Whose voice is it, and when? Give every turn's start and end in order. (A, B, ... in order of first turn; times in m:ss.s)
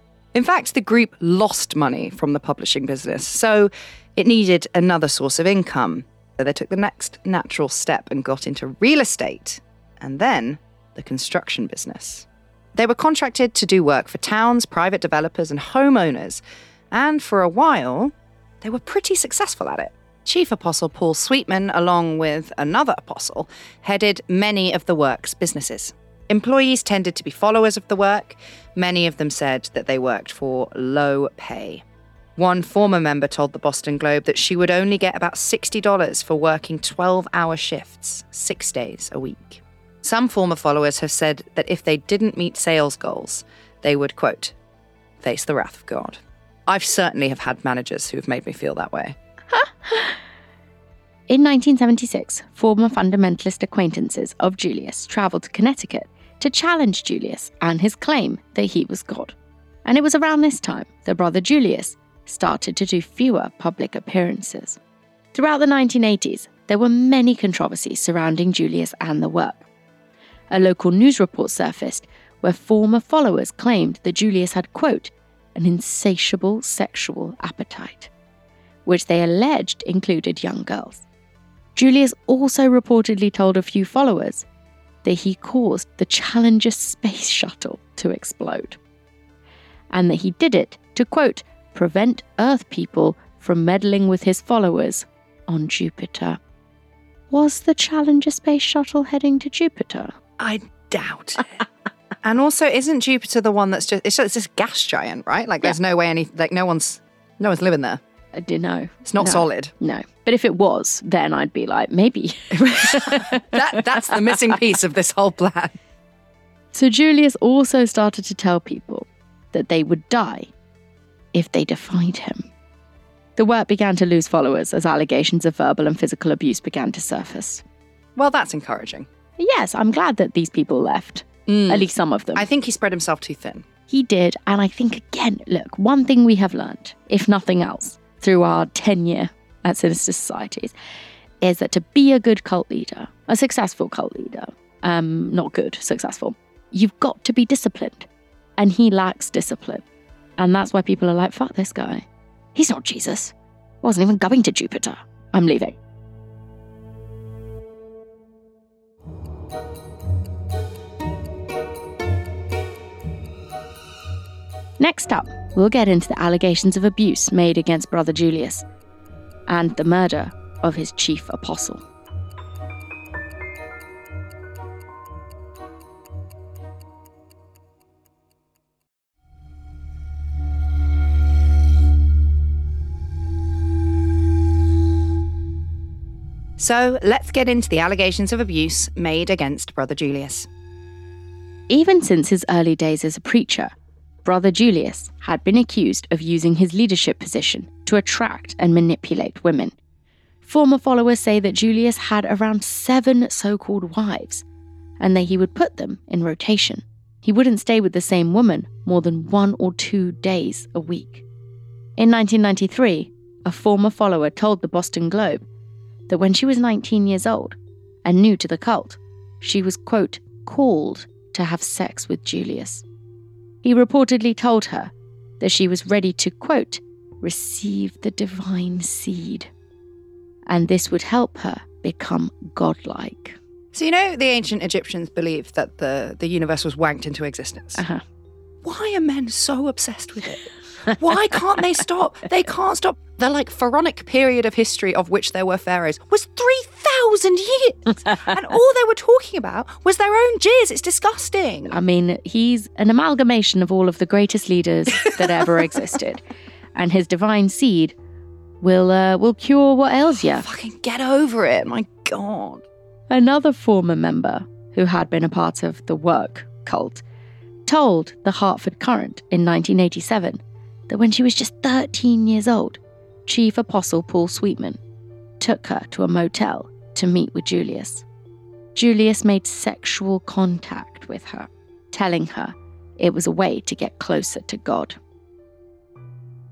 0:00.3-0:31.8 A
0:32.4-0:44.5 A
0:45.2-0:49.2 A
0:49.5-0:50.2 B
0:51.3-1:04.8 B
1:05.3-1:09.6 B
1:10.5-1:18.1 B
1:18.8-1:21.0 B
1:21.8-1:24.4 B
1:25.0-1:28.8 B
1:29.9-1:36.4 B
1:37.3-1:40.1 B
1:40.4-1:41.6 A
1:42.2-1:48.0 A
1:48.4-1:53.5 B
1:49.0-1:49.7 A
1:52.5-1:55.8 A
1:54.0-1:54.4 B
1:56.7-2:00.5 B
2:01.3-2:02.5 B
2:03.4-2:07.6 B
2:08.2-2:09.1 A
2:09.4-2:12.5 B
2:11.5-2:13.7 A
2:13.9-2:20.7 B
2:21.4-2:29.8 B
2:30.4-2:35.8 B
2:44.8-2:48.6 B
2:49.5-2:51.8 B
3:06.6-3:10.5 A
3:11.7-3:13.7 B
3:14.2-3:19.7 B
3:20.4-3:24.4 B
3:25.0-3:31.2 B
3:32.0-3:35.4 B
3:36.1-3:42.8 B
3:43.6-3:49.5 B
3:50.5-3:53.4 B
3:53.7-3:57.8 A
3:57.8-3:58.0 B
3:58.6-4:11.8 A
4:11.7-4:16.2 B
4:16.7-4:17.9 B
4:18.6-4:20.4 B
4:20.3-4:22.6 A
4:23.1-4:27.0 B
4:27.6-4:34.8 B
4:35.4-4:38.0 B
4:38.7-4:45.0 B